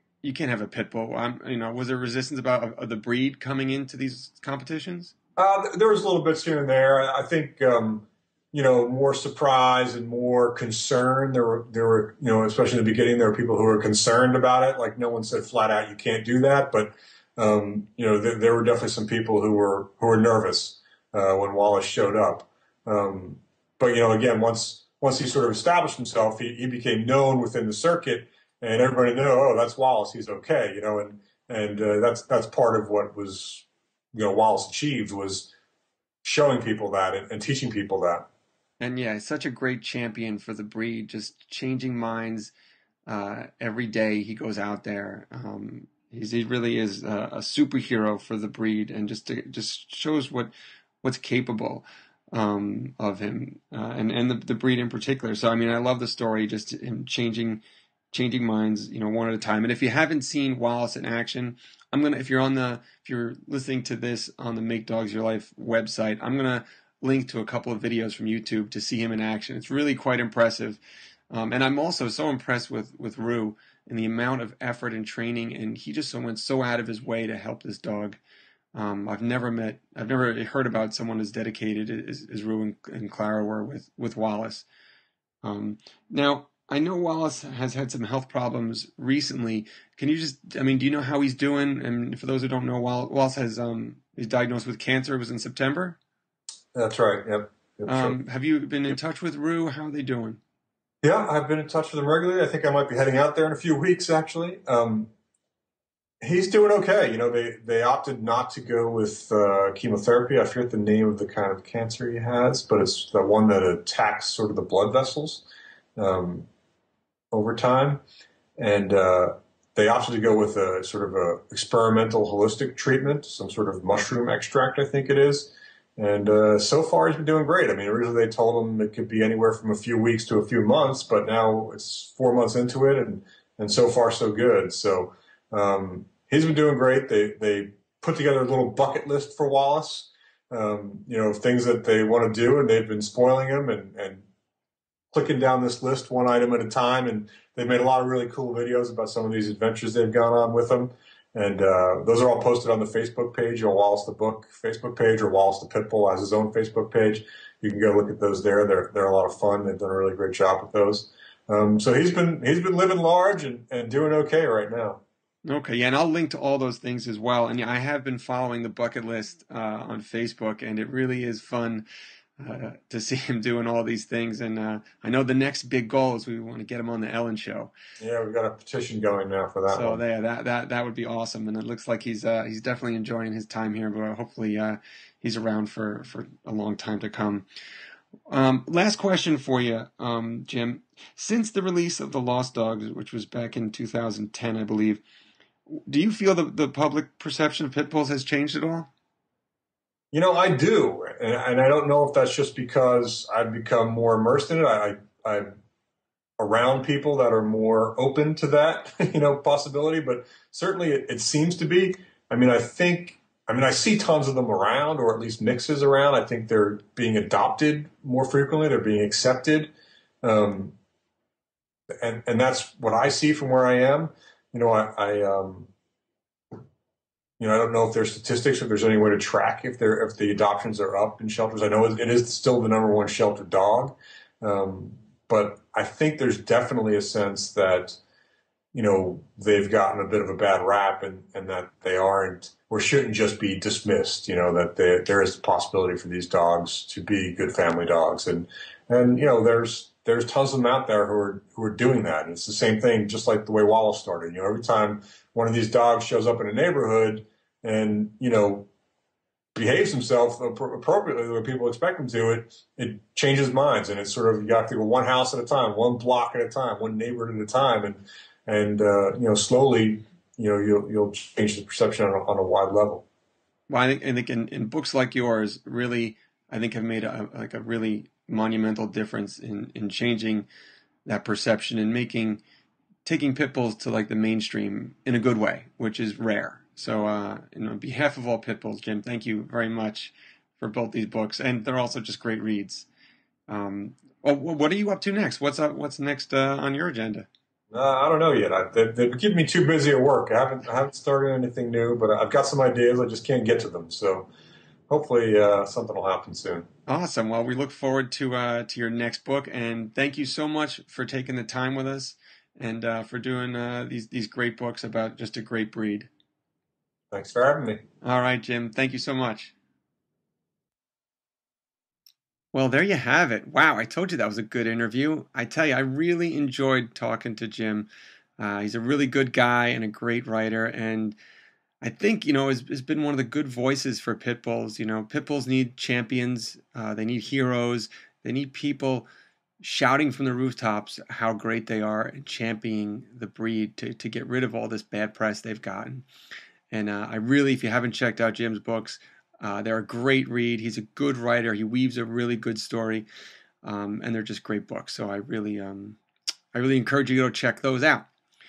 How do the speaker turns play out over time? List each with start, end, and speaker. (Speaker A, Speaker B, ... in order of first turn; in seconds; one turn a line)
Speaker A: 0.2-5.1
Speaker B: 5.4-35.5
Speaker B: 36.2-38.3
Speaker A: 38.8-42.5
Speaker A: 43.1-50.5
Speaker A: 51.0-70.8
Speaker A: 71.3-78.2
Speaker A: 78.7-84.6
Speaker A: 85.4-96.0
Speaker B: 96.7-98.2
Speaker A: 97.9-100.4
Speaker B: 101.0-105.1
Speaker B: 106.2-115.4
Speaker B: 116.0-116.5
Speaker B: 117.3-118.0
Speaker B: 118.6-144.2
Speaker B: 145.1-165.0
Speaker A: 165.4-171.8
Speaker A: 172.4-177.7
Speaker B: 178.0-180.0
Speaker A: 179.7-187.4
Speaker A: 188.3-195.0
Speaker A: 195.7-198.9
Speaker B: 200.1-205.5
Speaker B: 206.4-219.7
Speaker B: 220.2-220.7
Speaker B: 222.0-225.7
Speaker B: 227.4-238.0
Speaker B: 238.7-258.7
Speaker B: 259.5-273.0
Speaker A: 273.7-280.5
Speaker A: 281.0-282.4
Speaker A: 283.0-292.9
Speaker A: 293.5-297.3
Speaker B: 297.7-304.3
Speaker B: 304.9-306.7
Speaker A: 306.9-316.1
Speaker B: 317.1-317.8
Speaker A: 318.0-319.5
Speaker A: 322.5-327.9
Speaker A: 328.4-331.2
Speaker A: 331.8-339.1
Speaker A: 339.6-346.0
Speaker A: 346.7-353.1
Speaker A: 353.6-356.0
Speaker A: 356.5-358.1